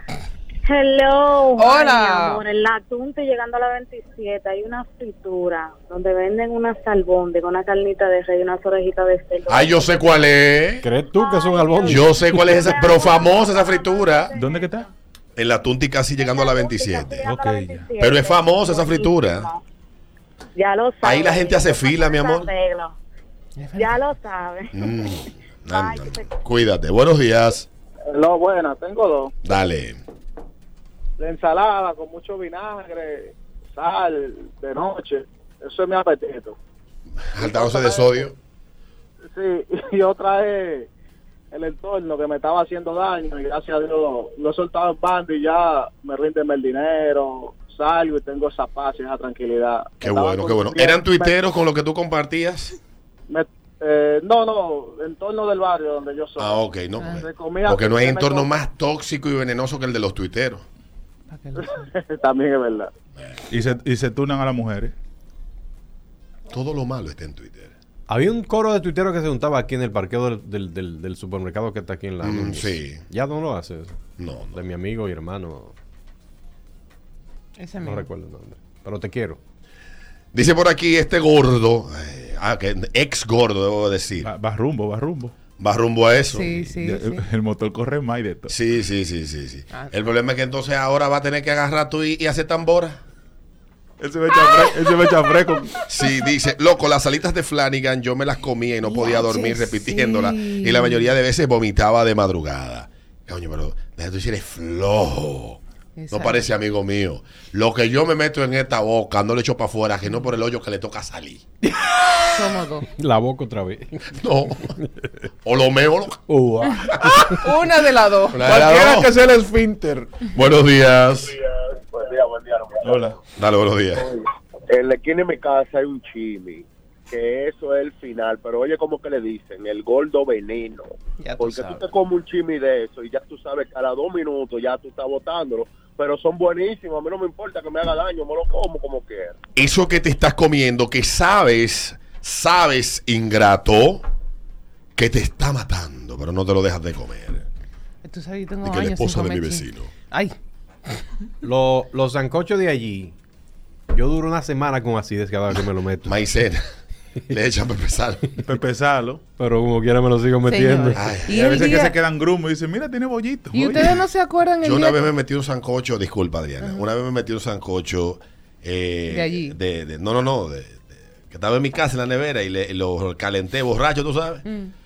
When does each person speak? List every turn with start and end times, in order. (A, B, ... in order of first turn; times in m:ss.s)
0:00.6-0:10.3 A
0:01.5-0:02.4 B
0:09.5-0:10.9 C
0:10.8-0:12.6 D
0:11.1-0:14.9 A
0:11.8-0:14.4 C
0:14.4-0:14.9 E
0:15.4-0:17.3 C
0:16.2-0:19.6 A
0:17.2-0:17.9 E
0:18.0-0:19.5 C
0:20.5-0:23.0 A
0:21.0-0:22.5 C
0:23.6-0:24.0 B
0:23.7-0:25.0 A
0:24.7-0:27.7 C
0:25.6-0:26.3 A
0:28.1-0:29.3 F
0:29.4-0:30.0 C
0:31.2-0:36.6 F
0:37.2-0:38.4 C
0:37.4-0:38.3 F
0:39.3-0:40.9 F
0:41.5-0:51.4 F
0:50.0-0:52.7 C
0:53.3-0:56.6 F
0:56.4-1:00.6 C
0:57.0-0:57.2 B
0:57.2-0:58.5 F
1:01.3-1:01.8 B
1:01.6-1:02.9 F
1:03.5-1:04.9 E
1:06.5-1:07.7 C
1:08.1-1:14.0 D
1:12.2-1:13.0 C
1:14.2-1:14.6 C
1:14.5-1:15.7 D
1:17.6-1:18.0 B
1:17.8-1:19.4 D
1:20.3-1:24.3 C
1:24.2-1:25.3 E
1:25.6-1:26.6 C
1:26.3-1:27.2 B
1:26.8-1:28.5 E
1:28.5-1:33.0 C
1:34.0-1:36.2 E
1:35.9-1:45.6 C
1:38.8-1:41.1 B
1:46.0-1:46.5 B
1:46.1-1:51.4 C
1:52.3-1:52.9 B
1:53.0-1:54.9 D
1:54.1-1:54.8 C
1:55.4-1:57.2 C
1:56.3-1:56.8 D
1:57.3-1:58.6 B
1:58.3-1:59.1 C
1:58.4-2:00.2 E
2:00.3-2:01.4 C
2:01.9-2:03.1 G
2:02.8-2:03.2 E
2:03.4-2:04.1 C
2:04.0-2:19.4 G
2:11.2-2:11.8 B
2:19.6-2:24.0 C
2:25.0-2:27.4 C
2:28.0-2:30.3 B
2:28.6-2:29.9 C
2:30.9-2:31.2 B
2:31.4-2:33.1 D
2:33.9-2:36.2 D
2:36.0-2:36.6 C
2:37.3-2:38.4 C
2:38.4-2:39.2 E
2:39.4-2:41.1 D
2:40.4-2:42.0 B
2:41.0-2:41.4 C
2:41.3-2:43.9 E
2:43.5-2:45.0 B
2:44.6-2:54.4 C
2:46.6-2:46.9 B
2:49.1-2:49.5 B
2:54.4-2:54.7 B